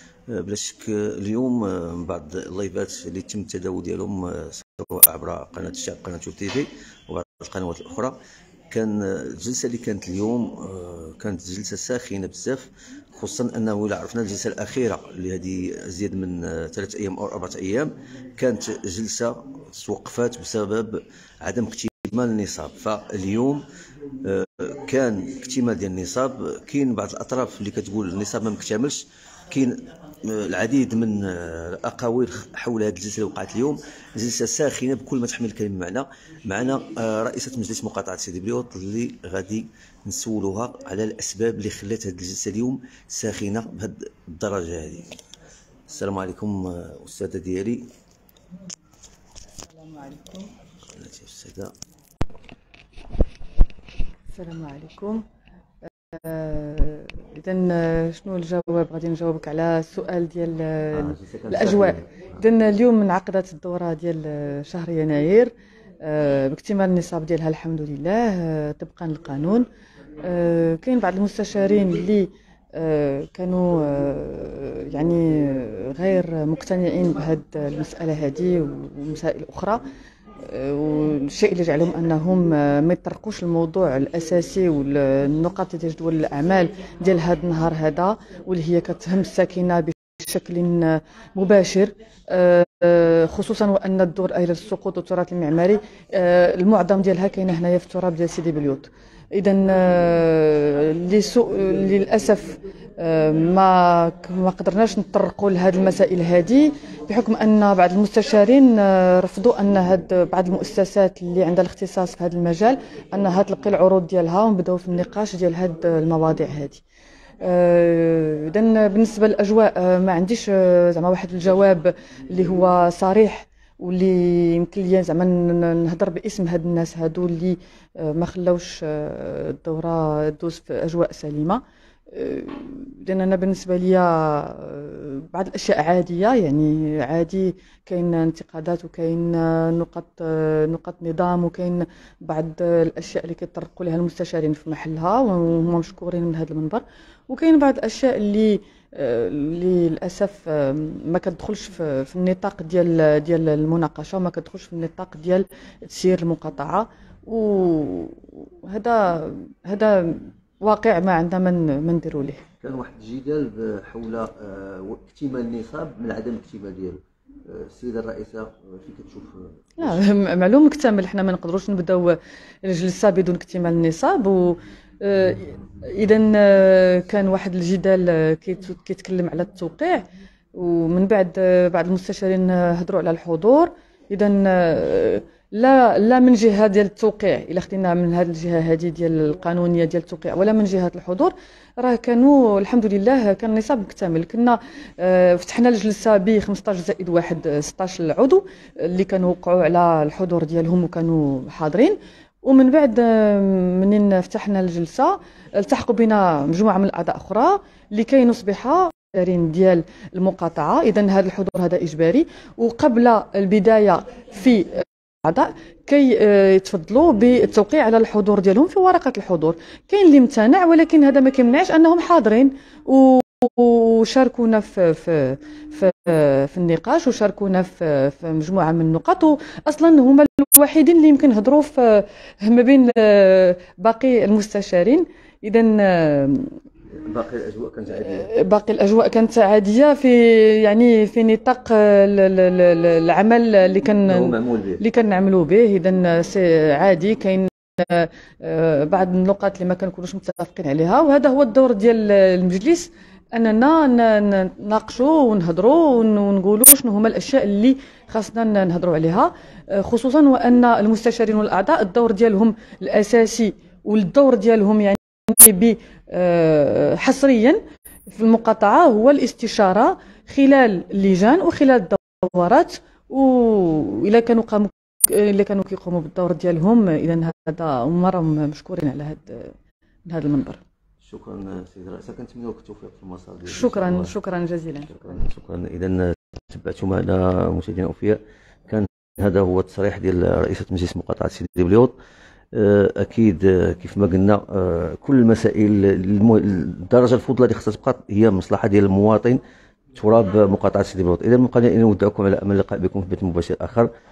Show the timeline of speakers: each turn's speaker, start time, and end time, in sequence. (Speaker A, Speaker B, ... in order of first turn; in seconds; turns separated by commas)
Speaker A: 0.3-8.2, Speaker A: 8.7-23.6, Speaker A: 24.2-45.1, Speaker A: 45.9-47.9, Speaker B: 49.6-50.5, Speaker A: 51.0-51.7, Speaker B: 54.3-55.2, Speaker B: 56.1-65.5, Speaker A: 60.9-62.3, Speaker B: 66.0-69.7, Speaker B: 70.2-79.8, Speaker B: 80.4-116.8, Speaker B: 117.4-162.4, Speaker A: 162.6-170.0, Speaker B: 169.8-236.5, Speaker A: 237.0-238.3, Speaker B: 237.9-279.5, Speaker A: 244.0-244.8, Speaker B: 280.1-280.6, Speaker A: 281.0-284.1, Speaker B: 283.4-285.1, Speaker A: 284.9-291.9, Speaker A: 292.5-299.4, Speaker A: 299.9-303.9